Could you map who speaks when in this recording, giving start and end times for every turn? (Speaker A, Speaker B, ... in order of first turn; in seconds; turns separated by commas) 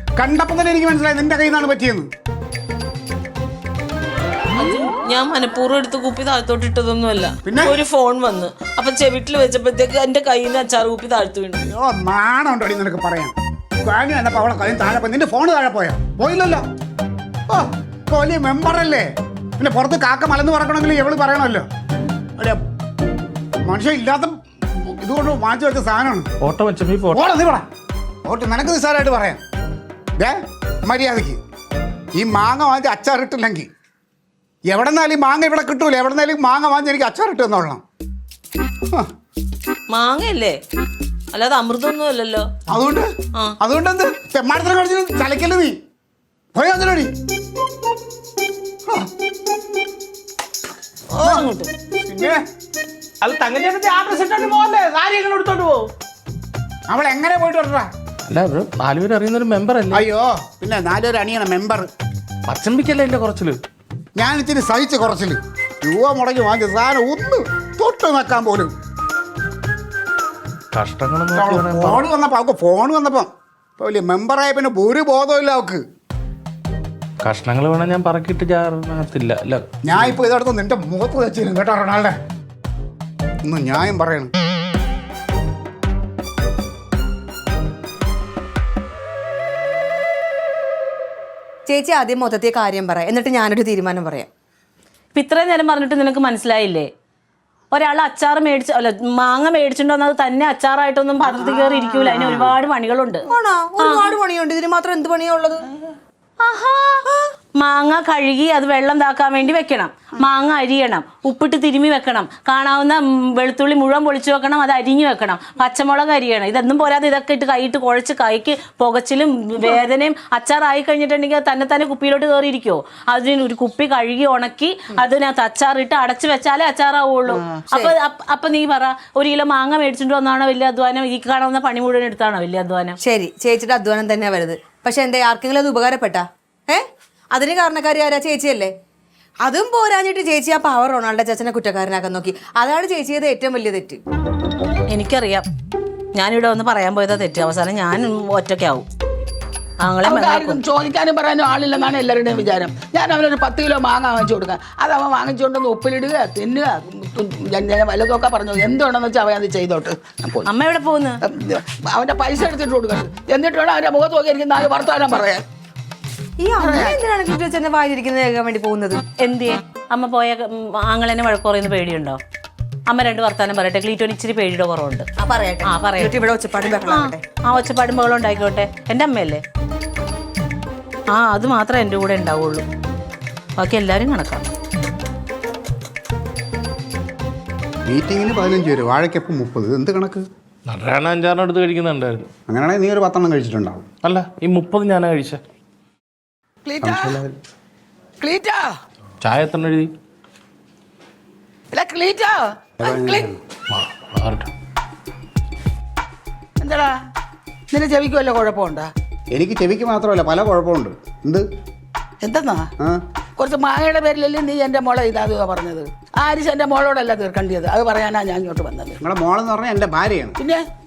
Speaker A: 0.2-2.1, Speaker B: 4.5-11.7, Speaker A: 7.5-7.8, Speaker A: 11.7-13.3, Speaker A: 13.8-16.6, Speaker A: 17.5-19.1, Speaker A: 19.6-21.6, Speaker A: 23.7-26.3, Speaker C: 26.4-27.3, Speaker A: 27.1-27.7, Speaker A: 28.3-29.4, Speaker A: 30.2-31.4, Speaker A: 32.2-33.7, Speaker A: 34.7-37.8, Speaker B: 39.9-40.6, Speaker B: 41.3-42.5, Speaker A: 42.7-43.1, Speaker A: 43.6-45.8, Speaker A: 46.5-47.1, Speaker B: 51.1-51.7, Speaker A: 52.0-52.4, Speaker C: 53.2-55.9, Speaker A: 56.9-57.9, Speaker C: 58.3-60.0, Speaker A: 59.9-61.9, Speaker C: 62.5-63.6, Speaker A: 64.2-68.7, Speaker C: 70.7-72.0, Speaker A: 71.3-75.8, Speaker C: 77.2-80.0, Speaker A: 79.8-82.2, Speaker A: 83.4-84.3, Speaker D: 91.7-94.3, Speaker B: 95.2-96.9, Speaker B: 97.7-103.2, Speaker D: 102.1-102.4, Speaker D: 103.3-105.7, Speaker B: 103.8-104.2, Speaker B: 106.4-107.0, Speaker B: 107.6-133.0, Speaker D: 127.5-127.9, Speaker D: 133.0-138.7, Speaker D: 139.4-144.0, Speaker B: 144.9-145.5, Speaker B: 146.1-148.9, Speaker B: 149.8-150.6, Speaker E: 150.1-160.5, Speaker B: 160.4-161.2, Speaker E: 161.3-165.4, Speaker D: 166.4-169.0, Speaker E: 166.6-167.0, Speaker B: 169.2-172.2, Speaker B: 172.9-175.1, Speaker D: 175.2-177.2, Speaker B: 175.6-176.1, Speaker B: 176.8-179.4, Speaker B: 181.1-182.7, Speaker B: 183.6-184.4, Speaker A: 187.9-190.2, Speaker C: 190.7-192.3, Speaker A: 192.5-193.8, Speaker C: 194.0-195.4, Speaker E: 196.7-197.2, Speaker A: 196.8-197.4, Speaker E: 198.2-198.6, Speaker C: 199.2-199.9, Speaker E: 201.7-203.3, Speaker A: 202.8-203.4, Speaker C: 203.7-204.5, Speaker E: 206.6-206.9, Speaker E: 207.7-208.9, Speaker A: 209.3-211.4, Speaker E: 212.2-212.7, Speaker E: 213.4-219.0, Speaker A: 219.0-220.4